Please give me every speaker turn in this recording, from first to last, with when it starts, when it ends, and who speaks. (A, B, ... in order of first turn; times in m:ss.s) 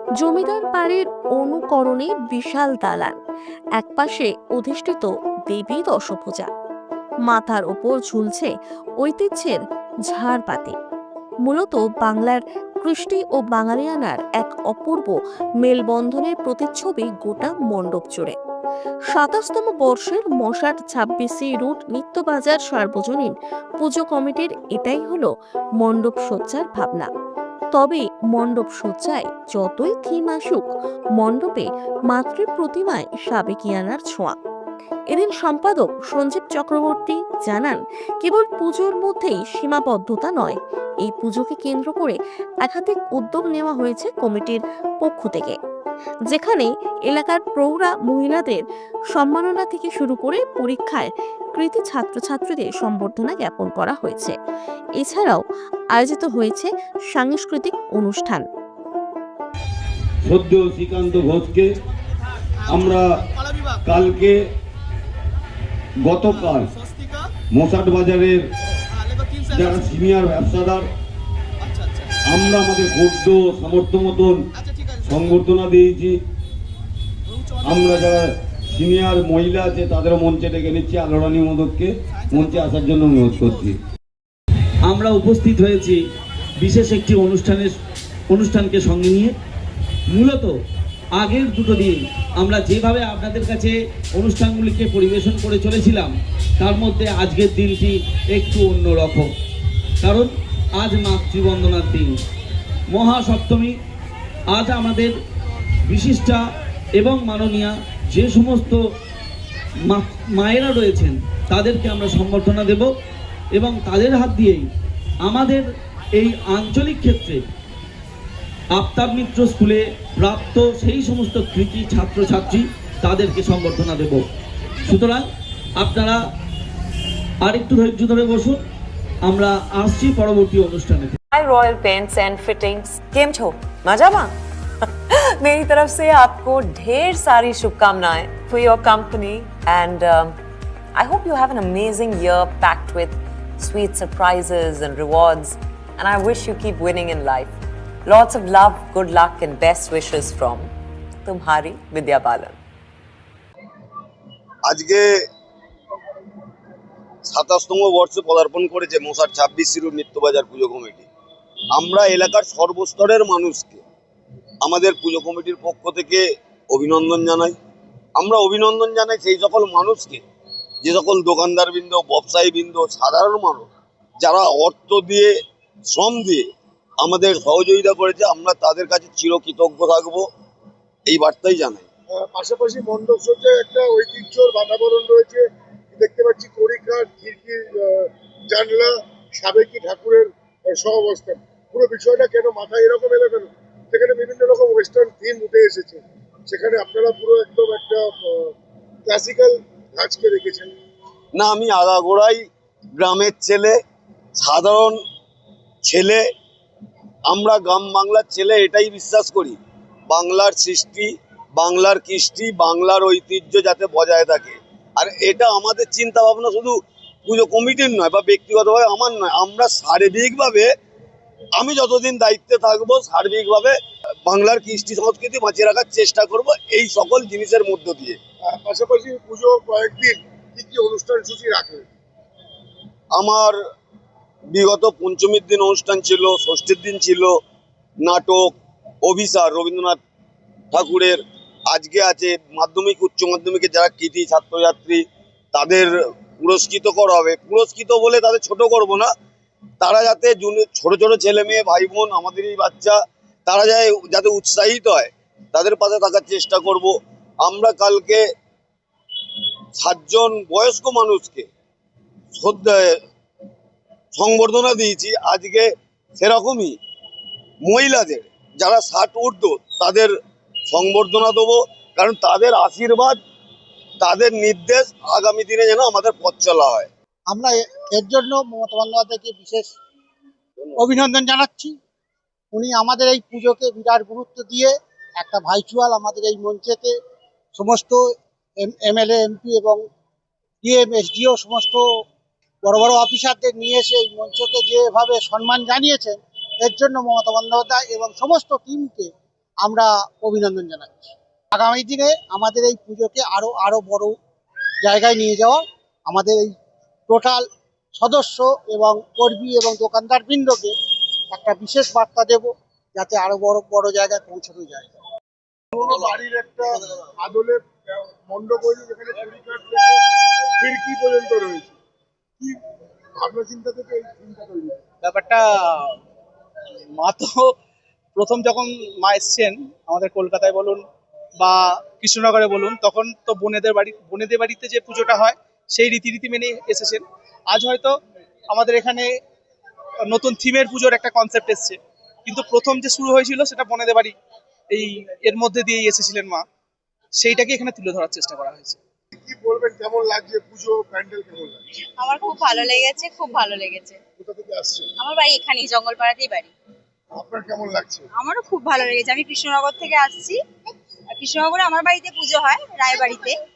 0:00.2-0:03.2 A
0:03.8-0:06.5 A
0:07.3-0:09.6 A
0:10.1-0:10.8 A
0:11.5-0:18.4 A
0:19.1-0:27.1 A
0:27.7-0:34.4 A
0:35.1-0:45.6 A
0:46.3-0:48.6 A
0:49.1-0:54.4 A
0:55.0-0:58.4 A
1:00.2-1:01.7 B
1:02.7-1:03.2 B
1:03.8-1:04.4 B
1:06.0-1:06.7 B
1:07.5-1:08.4 B
1:09.5-1:10.9 B
1:12.3-1:14.4 B
1:15.0-1:16.2 B
1:17.6-1:23.8 B
1:24.9-1:26.0 C
1:26.6-1:27.7 C
1:28.3-1:29.3 C
1:30.1-1:30.5 C
1:31.2-1:39.3 C
1:40.0-1:42.1 C
1:42.9-1:43.7 C
1:44.5-1:45.1 C
1:45.9-1:46.4 C
1:47.0-1:48.8 C
1:49.9-1:52.9 C
1:53.5-1:54.7 C
1:55.2-1:55.6 C
1:56.2-1:57.4 C
1:58.7-2:04.2 C
2:04.8-2:05.2 C
2:05.8-2:06.2 C
2:07.4-2:08.6 C
2:09.3-2:11.2 C
2:11.3-2:14.3 D
2:15.4-2:20.4 D
2:21.0-2:30.7 D
2:31.2-2:32.6 D
2:34.7-2:35.1 B
2:37.3-2:41.1 B
2:41.7-2:43.8 B
2:44.6-2:47.6 B
2:48.2-2:50.2 B
2:50.8-2:53.7 B
2:54.2-2:55.3 B
2:55.9-2:56.5 B
2:57.0-3:00.3 B
3:01.1-3:01.9 B
3:02.1-3:18.5 E
3:19.1-3:20.7 E
3:21.3-3:22.5 B
3:23.0-3:23.8 B
3:24.4-3:25.0 B
3:25.8-3:26.2 B
3:27.3-3:29.6 B
3:30.1-3:40.7 B
3:41.6-3:48.2 B
3:48.4-3:51.9 E
3:53.1-3:53.6 B
3:54.5-3:57.4 B
3:58.0-4:00.0 B
4:00.7-4:05.0 B
4:05.5-4:09.1 B
4:09.8-4:18.2 B
4:19.8-4:21.5 B
4:22.4-4:23.0 B
4:24.1-4:26.8 B
4:27.6-4:30.1 B
4:30.7-4:33.2 B
4:34.0-4:36.9 B
4:37.3-4:39.7 F
4:40.8-4:41.8 F
4:42.5-4:47.0 F
4:47.6-4:49.8 F
4:50.6-4:51.9 F
4:52.6-5:04.2 F
5:04.8-5:06.5 F
5:07.1-5:07.4 F
5:08.0-5:10.8 F
5:11.3-5:14.9 F
5:15.8-5:20.0 E
5:20.6-5:21.8 E
5:23.2-5:24.8 E
5:25.0-5:26.0 G
5:27.0-5:27.5 G
5:28.2-5:30.8 G
5:31.4-5:38.0 G
5:38.5-5:39.1 G
5:40.1-5:44.1 G
5:44.7-5:46.4 G
5:47.2-5:48.8 G
5:49.2-5:51.6 E
5:51.8-5:54.0 H
5:54.2-5:54.9 E
5:55.0-5:56.5 H
5:57.1-5:58.1 E
5:58.1-6:00.4 H
6:01.1-6:03.4 H